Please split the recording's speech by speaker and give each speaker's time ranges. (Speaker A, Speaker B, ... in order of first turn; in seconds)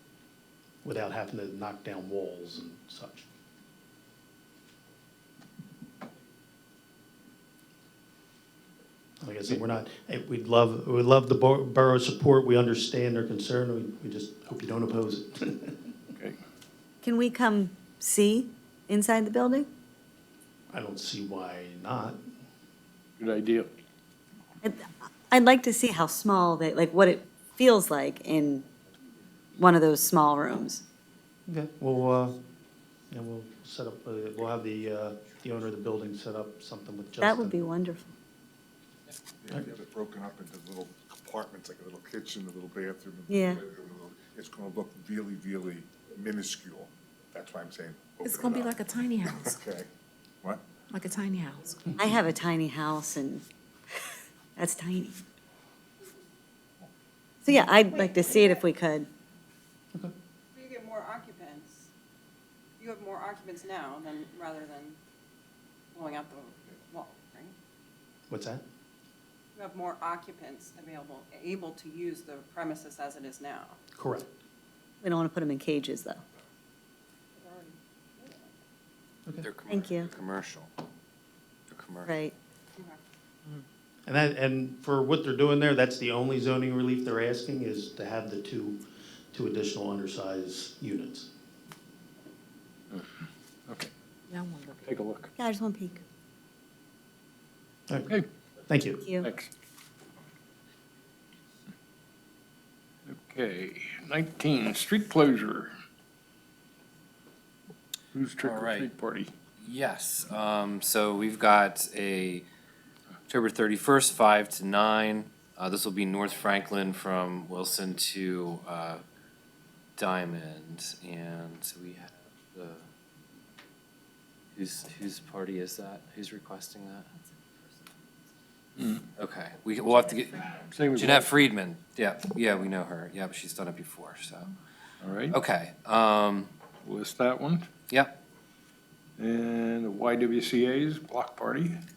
Speaker A: 0.8-3.3, 9.2-15.8, 20.7-22.2, 31.5-32.4, 33.1-37.6, 68.3-68.6, 74.0-74.3, 84.1-88.8, 89.3-91.3, 98.7-99.0
Speaker B: 17.0-19.7, 24.6-28.7, 29.6-30.8, 37.2-38.0, 43.3-43.6, 52.0-53.4, 54.6-55.2, 57.5-59.1, 75.0-76.2, 79.7-80.1, 82.1-82.3, 95.4-96.0, 99.0-99.3
Speaker C: 23.2-23.7, 93.7-95.3, 99.2-99.5, 103.1-105.7, 108.1-109.3, 128.8-129.1, 130.6-131.3, 135.0-135.4, 136.8-137.7, 139.2-141.8
Speaker D: 39.4-49.9
Speaker E: 48.2-49.5, 50.9-51.8
Speaker F: 57.7-58.6, 60.5-61.9, 62.8-65.0, 65.9-67.5, 69.5-73.8, 77.3-78.5, 82.8-83.0
Speaker G: 79.4-80.7, 81.7-82.2, 108.4-108.9, 109.6-112.5, 113.3-119.0, 120.0-122.8, 124.5-127.1, 129.2-134.5, 135.3-136.5, 137.9-138.2